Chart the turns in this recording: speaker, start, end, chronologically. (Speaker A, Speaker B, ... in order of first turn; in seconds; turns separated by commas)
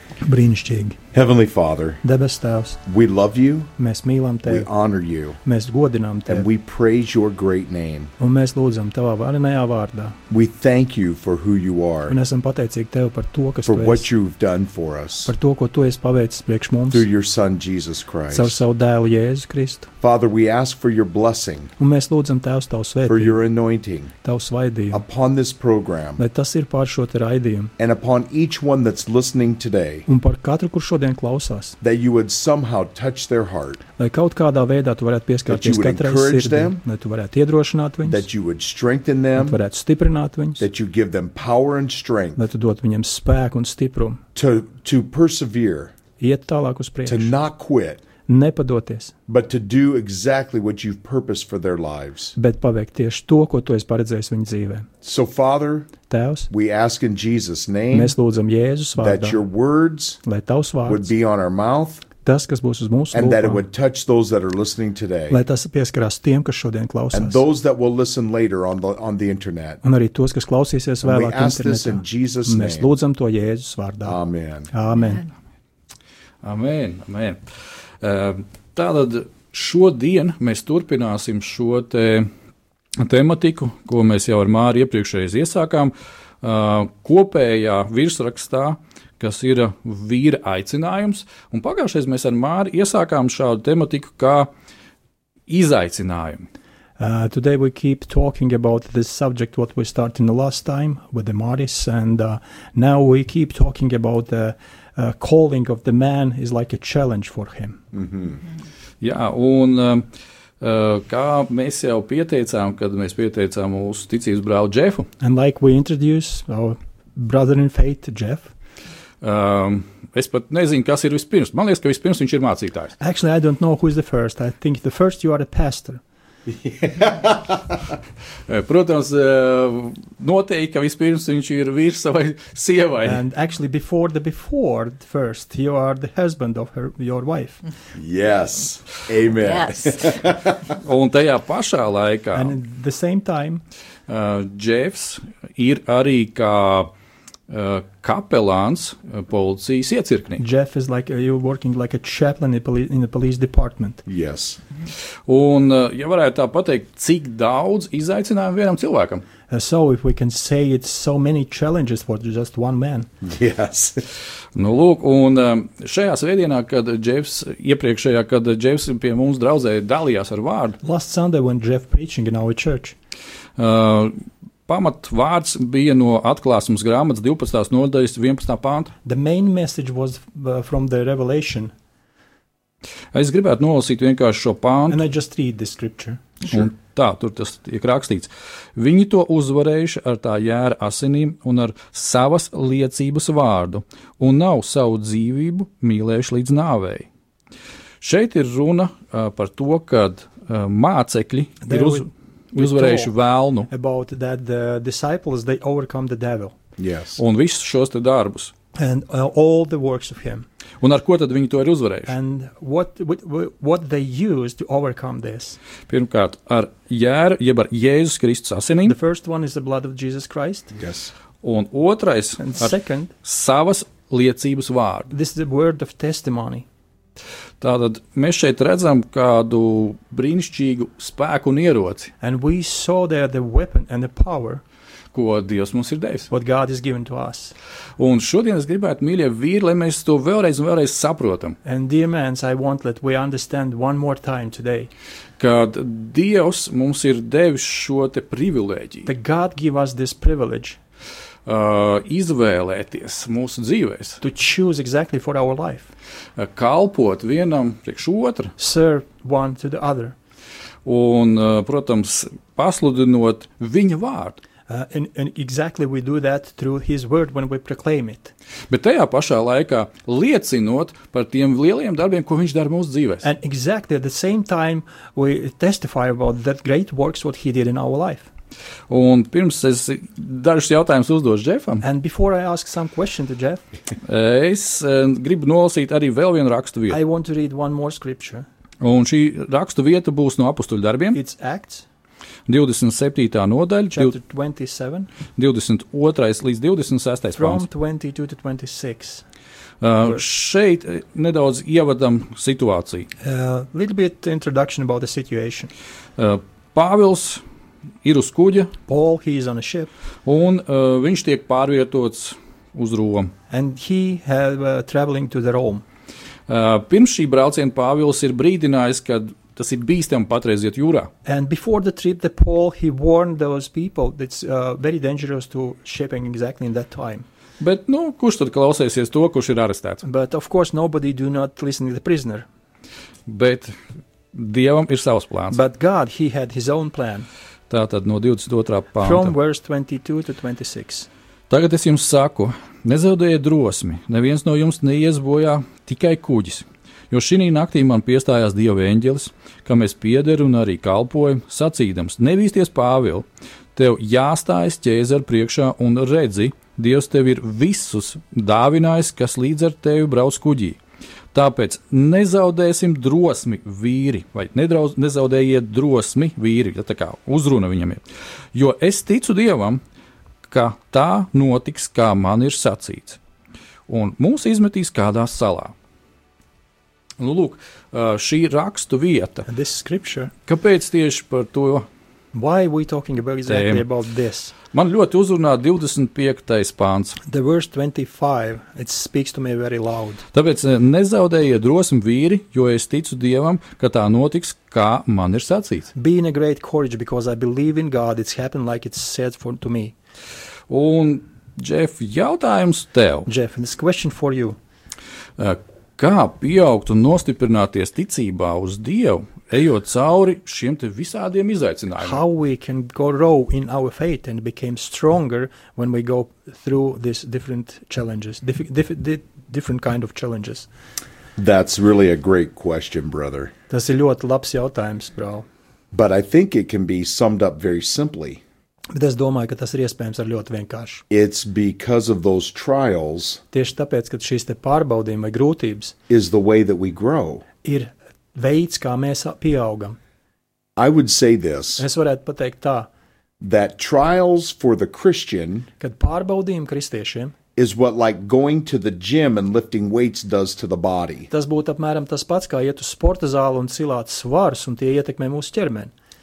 Speaker A: 0.2-1.0, Speaker B: 1.1-2.0, Speaker A: 2.0-2.8, Speaker B: 2.9-3.7, Speaker A: 3.8-4.7, Speaker B: 4.5-5.4, Speaker A: 5.4-6.5, Speaker B: 6.3-8.1, Speaker A: 8.2-10.2, Speaker B: 10.3-12.2, Speaker A: 12.1-14.1, Speaker B: 13.7-15.3, Speaker A: 15.2-17.1, Speaker B: 16.9-18.6, Speaker A: 18.3-19.9, Speaker B: 20.0-21.7, Speaker A: 21.8-23.4, Speaker B: 23.1-24.1, Speaker A: 24.2-25.0, Speaker B: 24.9-26.2, Speaker A: 26.2-27.7, Speaker B: 27.8-30.1, Speaker A: 30.1-31.8, Speaker B: 31.8-33.8, Speaker A: 34.0-38.2, Speaker B: 35.5-36.8, Speaker B: 38.0-39.6, Speaker A: 39.4-40.6, Speaker B: 40.6-42.4, Speaker A: 42.4-44.2, Speaker B: 44.4-45.9, Speaker A: 46.2-47.3, Speaker B: 47.1-48.0, Speaker A: 48.3-49.1, Speaker B: 49.3-52.4, Speaker A: 52.4-54.9, Speaker B: 55.0-55.9, Speaker A: 56.1-56.5, Speaker B: 56.5-58.1, Speaker A: 57.9-59.4, Speaker B: 59.0-60.2, Speaker A: 60.2-61.1, Speaker B: 60.9-62.0, Speaker A: 62.2-63.6, Speaker B: 63.1-65.4, Speaker A: 65.3-67.4, Speaker B: 67.1-69.8, Speaker A: 69.8-74.2, Speaker B: 71.0-73.0, Speaker B: 74.0-74.7, Speaker A: 74.7-75.2, Speaker C: 76.4-77.4, Speaker C: 78.0-82.3, Speaker C: 83.0-94.5, Speaker C: 95.5-96.5, Speaker A: 97.0-107.8, Speaker B: 107.9-108.4, Speaker C: 109.0-110.0, Speaker C: 110.6-115.1, Speaker A: 115.2-118.5, Speaker C: 119.2-123.0, Speaker A: 123.0-126.0, Speaker B: 126.7-127.7, Speaker C: 128.5-133.2, Speaker A: 133.1-137.6, Speaker B: 137.9-140.6, Speaker C: 140.7-142.6, Speaker A: 142.3-143.6, Speaker C: 144.1-146.9, Speaker C: 147.5-150.4, Speaker A: 150.4-154.0, Speaker B: 154.1-154.6, Speaker C: 155.3-159.2, Speaker A: 159.5-163.1, Speaker B: 163.2-164.0, Speaker C: 164.6-170.8, Speaker A: 170.8-172.9, Speaker C: 173.6-178.9, Speaker A: 179.1-181.7, Speaker C: 183.1-185.0, Speaker A: 184.9-186.3, Speaker C: 186.5-197.1, Speaker C: 198.0-203.7, Speaker A: 201.7-203.1, Speaker A: 203.7-206.6, Speaker B: 206.8-207.2, Speaker C: 207.2-208.5, Speaker A: 208.8-210.5, Speaker C: 210.8-212.1, Speaker A: 212.1-215.6, Speaker C: 215.9-218.9, Speaker A: 218.8-220.7, Speaker B: 220.7-221.1, Speaker C: 221.4-222.7, Speaker A: 222.4-223.1, Speaker C: 223.2-225.1, Speaker A: 225.1-226.7, Speaker C: 227.6-232.1, Speaker A: 232.2-234.6, Speaker C: 235.1-236.3, Speaker A: 236.3-237.5, Speaker C: 238.0-241.6, Speaker A: 241.7-244.9, Speaker C: 245.4-249.1, Speaker A: 249.1-250.8, Speaker C: 251.5-254.2, Speaker A: 254.2-255.9, Speaker C: 256.4-258.5, Speaker A: 258.6-260.1, Speaker C: 260.9-264.4, Speaker A: 264.7-268.3, Speaker C: 268.7-273.3, Speaker A: 273.2-278.3, Speaker C: 278.9-281.8, Speaker A: 281.8-283.6, Speaker C: 284.1-287.0, Speaker A: 286.9-288.5, Speaker C: 288.8-291.2, Speaker A: 291.1-291.9, Speaker C: 292.5-294.1, Speaker A: 293.9-295.1, Speaker C: 295.4-297.6, Speaker A: 297.3-299.2, Speaker C: 299.8-303.1, Speaker A: 303.2-305.7, Speaker C: 306.2-307.4, Speaker C: 308.0-308.7, Speaker A: 308.9-309.9, Speaker C: 310.3-313.3, Speaker A: 313.5-315.8, Speaker C: 316.5-321.1, Speaker A: 321.3-327.3, Speaker C: 327.6-330.0, Speaker A: 330.0-332.4, Speaker C: 333.3-333.8, Speaker C: 334.3-335.6, Speaker A: 335.5-337.3, Speaker C: 337.7-339.3, Speaker A: 339.0-341.1, Speaker C: 341.5-353.2, Speaker C: 353.8-360.8, Speaker C: 361.3-368.0, Speaker C: 368.5-369.8, Speaker C: 370.5-373.2, Speaker C: 373.9-375.7, Speaker C: 377.2-379.5, Speaker A: 379.5-380.3, Speaker C: 380.5-381.9, Speaker A: 382.3-384.5, Speaker C: 383.5-383.9, Speaker C: 384.7-387.2, Speaker A: 387.3-390.2, Speaker C: 390.3-395.9, Speaker A: 395.9-399.9, Speaker C: 400.7-403.3, Speaker A: 403.3-404.6, Speaker C: 405.4-412.2, Speaker A: 412.0-420.7, Speaker B: 421.4-423.5, Speaker A: 423.7-425.5, Speaker B: 425.9-428.4, Speaker A: 428.9-431.0, Speaker B: 431.1-433.4, Speaker A: 433.5-435.9, Speaker B: 436.1-437.4, Speaker A: 437.6-440.0, Speaker B: 440.8-441.9, Speaker A: 441.8-442.9, Speaker B: 443.4-445.7, Speaker A: 445.8-447.3, Speaker B: 447.6-451.3, Speaker A: 451.3-455.9